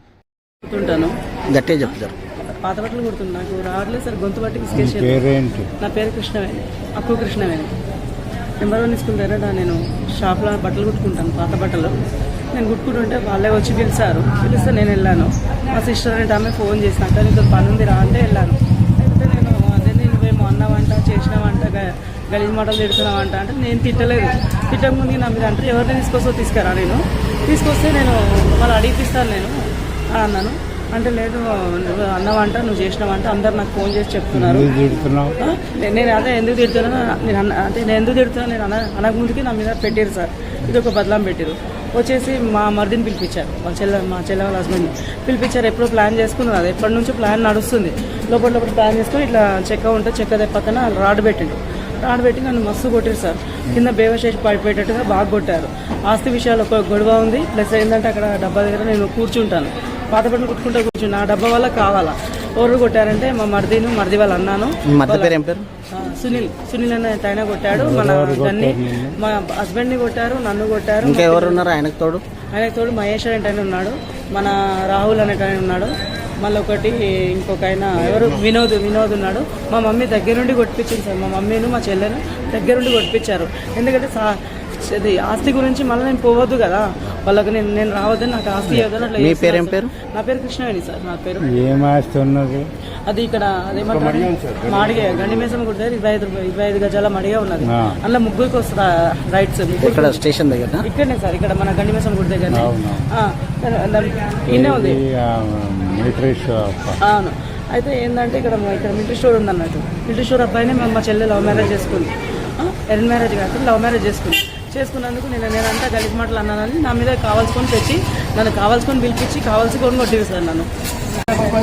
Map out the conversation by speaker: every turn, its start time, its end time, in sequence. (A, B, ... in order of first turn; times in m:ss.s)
0:00.6-0:01.2 A
0:01.5-0:02.2 B
0:02.5-0:05.2 A
0:04.7-0:05.7 C
0:05.8-0:07.7 A
0:08.6-0:12.0 A
0:12.5-0:29.6 A
0:30.2-0:34.7 A
0:34.3-0:35.4 C
0:35.4-1:05.4 A
1:04.9-1:05.7 B
1:05.9-1:11.7 A
1:07.7-1:09.2 C
1:11.0-1:12.2 B
1:12.5-1:31.5 A
1:18.0-1:18.4 B
1:28.7-1:29.9 B
1:31.5-1:32.7 C
1:33.1-1:40.2 A
1:37.7-1:38.0 C
1:39.8-1:40.8 B
1:40.8-1:45.0 A
1:42.5-1:43.1 C
1:44.5-1:47.0 C
1:47.0-2:00.7 A